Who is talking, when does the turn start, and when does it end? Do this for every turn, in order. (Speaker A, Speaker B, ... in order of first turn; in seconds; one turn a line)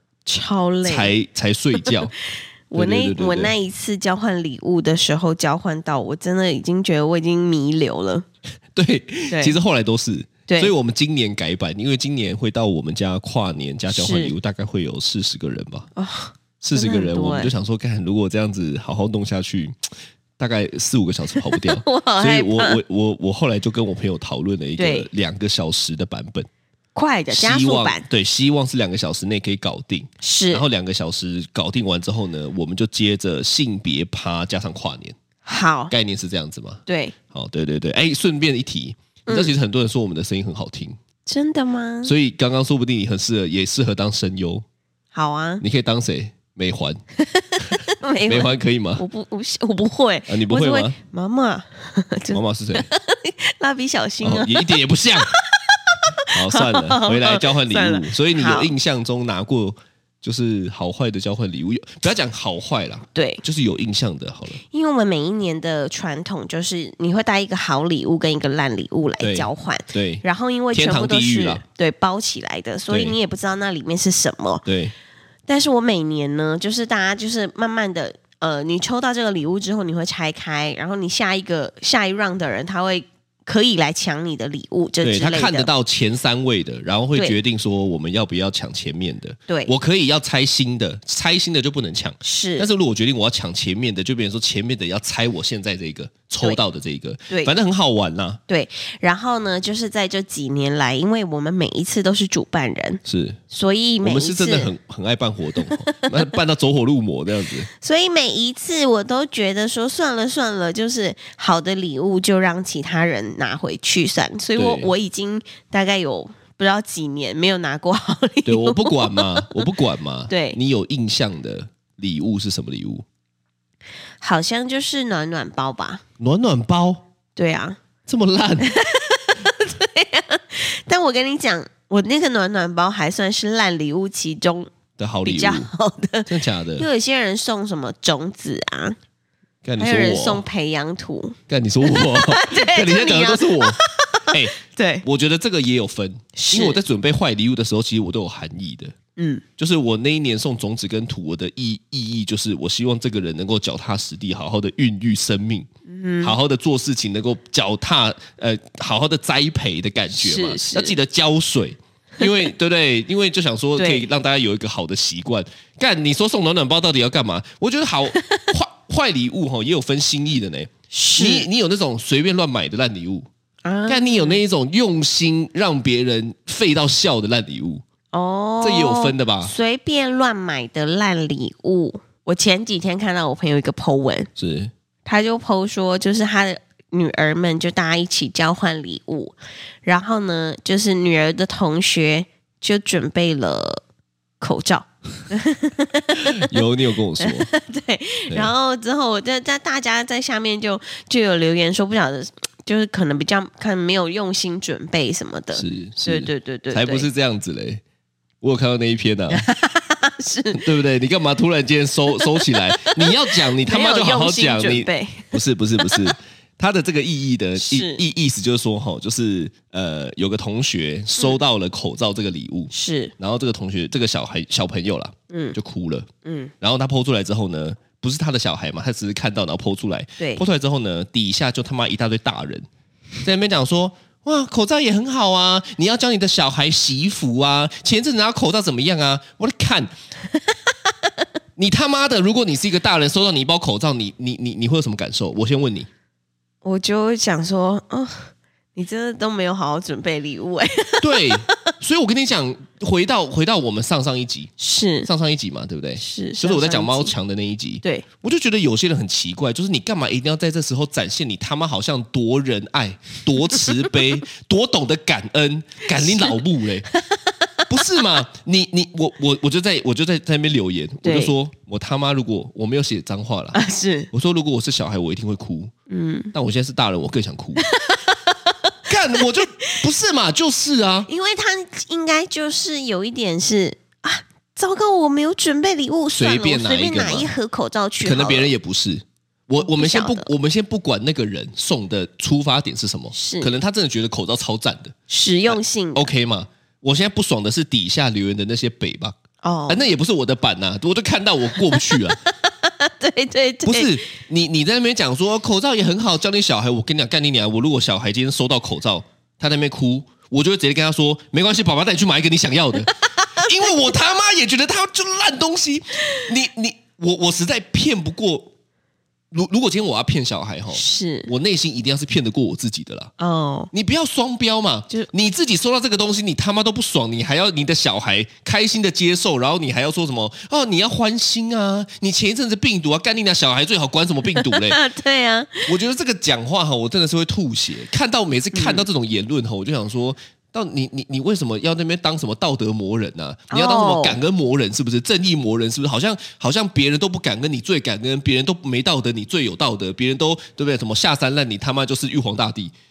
Speaker A: 0.2-1.1
Speaker B: 0.8-2.1
Speaker A: 2.7-8.2
Speaker B: 2.7-3.5
Speaker B: 8.7-15.9
Speaker A: 9.3-9.6
Speaker A: 10.5-10.7
Speaker A: 13.9-14.3
Speaker A: 15.9-17.5
Speaker B: 16.6-19.8
Speaker B: 20.4-26.5
Speaker A: 21.4-22.8
Speaker A: 24.8-25.1
Speaker A: 26.9-28.0
Speaker B: 27.3-35.1
Speaker A: 30.2-30.6
Speaker A: 35.4-35.9
Speaker B: 35.9-41.0
Speaker A: 36.9-37.1
Speaker A: 39.3-39.5
Speaker A: 41.2-42.1
Speaker B: 42.0-44.6
Speaker A: 45.1-45.6
Speaker B: 45.6-47.0
Speaker A: 47.2-58.7
Speaker B: 48.3-49.0
Speaker B: 50.3-51.0
Speaker B: 52.3-52.9
Speaker B: 54.2-55.3
Speaker B: 56.3-64.6
Speaker A: 63.1-63.4
Speaker A: 64.6-74.6
Speaker B: 69.2-71.6
Speaker B: 72.9-73.2
Speaker B: 74.7-74.9
Speaker A: 75.5-85.7
Speaker B: 85.0-98.4
Speaker A: 92.2-92.7
Speaker A: 98.5-104.7
Speaker B: 103.0-103.4
Speaker B: 104.0-107.7
Speaker A: 105.7-106.2
Speaker A: 107.8-119.5
Speaker B: 114.5-114.9
Speaker B: 118.5-123.0
Speaker A: 120.3-120.6
Speaker A: 124.2-126.0
Speaker B: 126.2-127.0
Speaker A: 127.3-127.8
Speaker B: 128.1-128.7
Speaker A: 128.6-134.7
Speaker B: 135.0-135.7
Speaker A: 135.2-138.9
Speaker B: 136.3-136.9
Speaker B: 139.6-140.4
Speaker A: 139.8-145.0
Speaker B: 141.5-148.9
Speaker A: 146.3-146.8
Speaker A: 149.2-149.4
Speaker B: 149.6-155.7
Speaker A: 155.9-156.3
Speaker B: 156.2-173.3
Speaker A: 160.1-160.9
Speaker A: 163.8-164.1
Speaker A: 168.1-168.5
Speaker A: 170.9-171.5
Speaker A: 173.6-174.4
Speaker B: 173.9-177.8
Speaker A: 178.1-184.3
Speaker B: 178.6-179.5
Speaker B: 184.4-184.7
Speaker A: 185.0-193.8
Speaker A: 194.4-196.5
Speaker B: 196.3-197.5
Speaker A: 197.2-207.1
Speaker B: 205.5-207.8
Speaker B: 208.4-209.5
Speaker A: 209.3-210.6
Speaker B: 210.5-226.1
Speaker A: 212.2-216.1
Speaker A: 217.6-218.0
Speaker A: 222.7-223.1
Speaker A: 225.3-225.6
Speaker A: 226.2-226.5
Speaker B: 226.6-232.7
Speaker B: 233.2-239.9
Speaker B: 241.6-245.9
Speaker A: 246.6-251.7
Speaker B: 251.0-254.5
Speaker A: 254.6-255.1
Speaker B: 255.0-266.9
Speaker A: 256.0-257.1
Speaker A: 265.9-266.4
Speaker A: 266.9-267.6
Speaker B: 267.7-273.6
Speaker A: 271.0-271.3
Speaker A: 273.5-274.1
Speaker B: 274.1-275.7
Speaker A: 275.9-276.3
Speaker B: 276.3-277.6
Speaker A: 277.6-278.5
Speaker B: 278.9-281.1
Speaker A: 281.1-288.5
Speaker B: 286.2-287.3
Speaker B: 288.0-294.9
Speaker A: 289.6-290.3
Speaker A: 293.1-293.5
Speaker A: 295.1-296.1
Speaker B: 295.5-299.1
Speaker A: 299.4-299.8
Speaker B: 299.7-302.2
Speaker A: 301.7-304.0
Speaker B: 303.6-318.5
Speaker A: 313.0-313.7
Speaker B: 319.3-323.1
Speaker A: 320.7-321.3
Speaker A: 323.2-323.7
Speaker B: 323.7-334.8
Speaker A: 334.3-335.7
Speaker B: 335.6-352.7
Speaker A: 338.5-338.8
Speaker A: 343.5-344.2